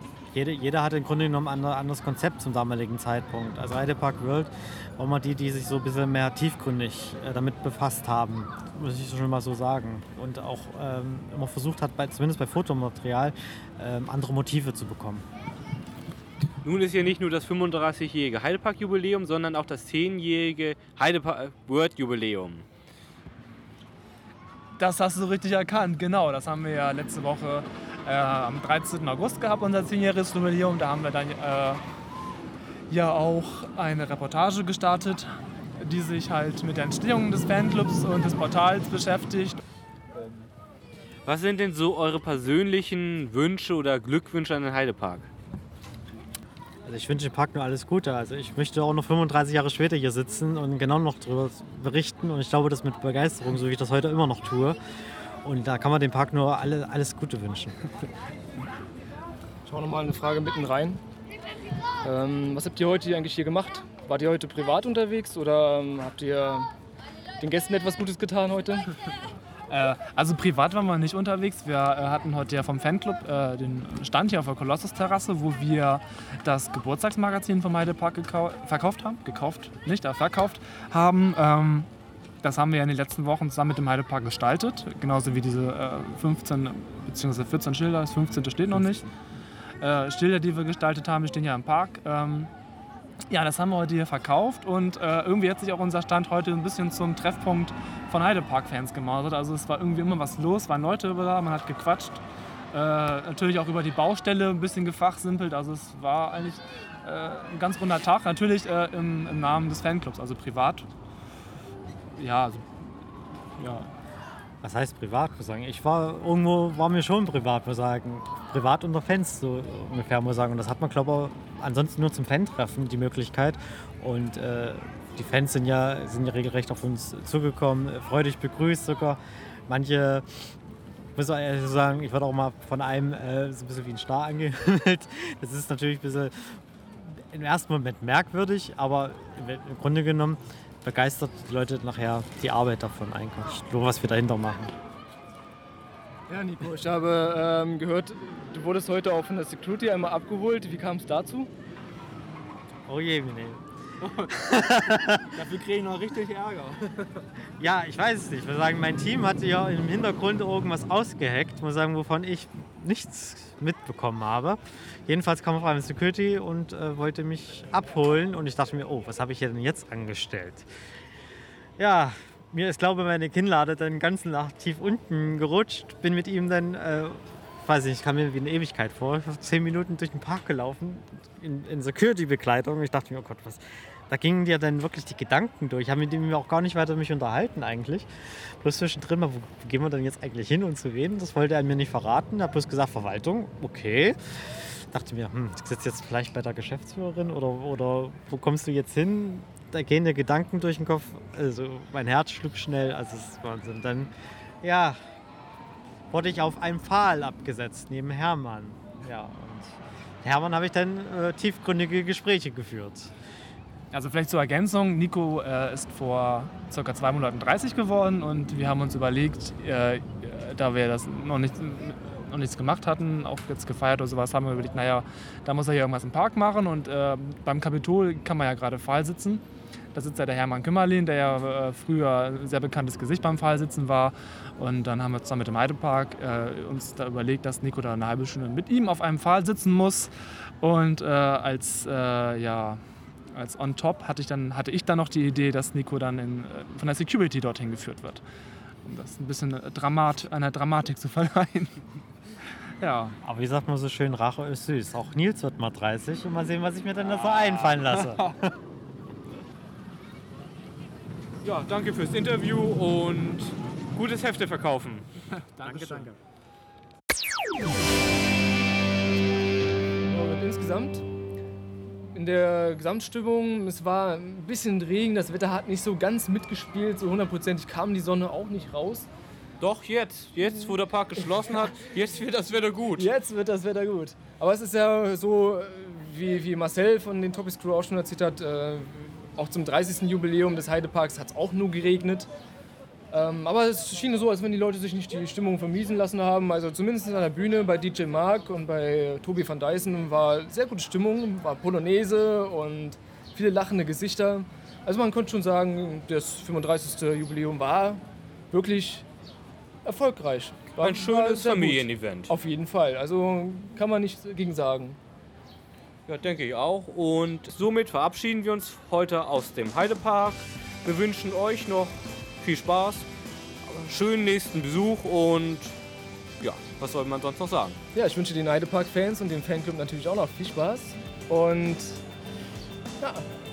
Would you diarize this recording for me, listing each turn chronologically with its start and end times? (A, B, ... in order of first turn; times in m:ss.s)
0:00.3-0:15.2 A
0:16.6-0:22.6 B
0:24.8-0:31.8 C
0:32.9-0:39.6 C
0:41.3-0:45.3 B
0:46.8-0:54.8 A
0:55.4-0:57.8 A
0:59.7-1:01.0 D
1:02.0-1:06.7 D
1:07.4-1:08.9 D
1:09.7-1:21.9 C
1:22.4-1:29.1 C
1:29.8-1:32.5 C
1:33.3-1:42.2 C
1:42.7-1:50.9 C
1:52.2-1:52.9 C
1:53.6-1:53.9 C
1:54.6-2:10.5 A
2:11.2-2:24.7 A
2:26.3-2:31.5 D
2:32.9-2:33.6 A
2:34.2-2:35.4 A
2:35.5-2:36.7 C
2:37.6-2:50.7 A
2:51.8-3:25.0 A
3:26.1-3:33.1 A
3:33.9-3:49.4 C
3:49.9-4:02.8 C
4:03.3-4:08.2 C
4:08.8-4:11.8 C
4:12.8-4:13.2 C
4:13.2-4:18.5 A
4:17.3-4:18.3 B
4:21.4-4:25.1 B
4:25.6-4:26.0 B
4:25.8-4:26.1 C
4:30.0-4:31.0 D
4:32.1-4:39.1 D
4:39.6-4:43.1 B
4:43.0-4:52.3 D
4:53.1-5:09.1 D
5:09.8-5:15.0 D
5:10.8-5:12.3 B
5:16.1-5:23.1 B
5:23.7-5:25.8 B
5:26.4-5:27.8 B
5:27.9-5:32.0 D
5:33.0-5:33.3 D